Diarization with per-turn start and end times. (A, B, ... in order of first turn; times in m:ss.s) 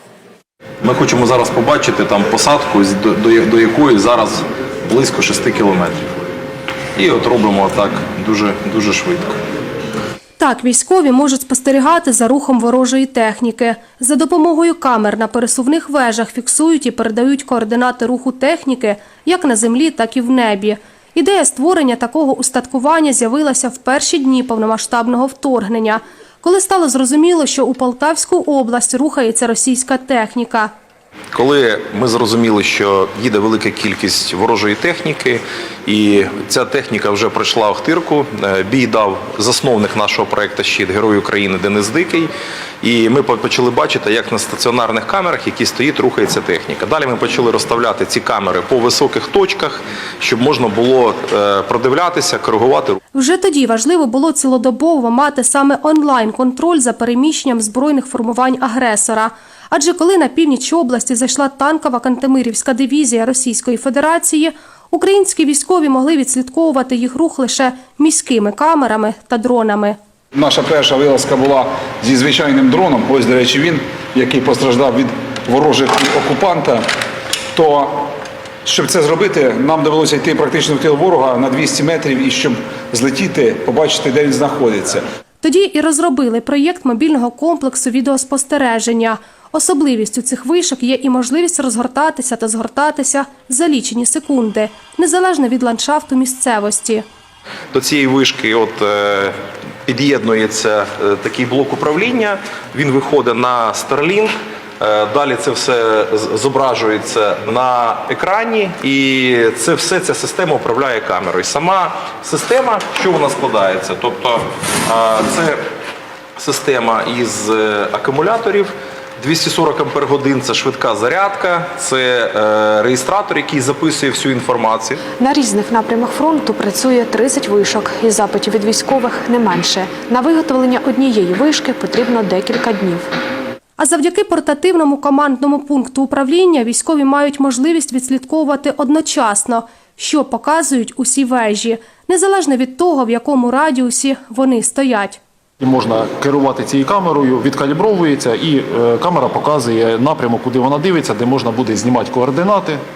0:00.8-0:06.1 A
0:07.0-0:09.4 A
0:10.4-0:30.7 B
0:31.3-0:42.3 A
0:42.8-0:53.0 A
0:53.1-1:10.0 B
1:10.3-1:16.8 C
1:17.5-1:18.1 C
1:18.6-1:25.0 C
1:25.4-1:37.0 B
1:37.7-1:39.3 A
1:39.8-1:55.6 A
1:56.4-2:05.0 A
2:05.2-2:13.1 D
2:13.8-2:25.2 B
2:25.6-2:32.8 E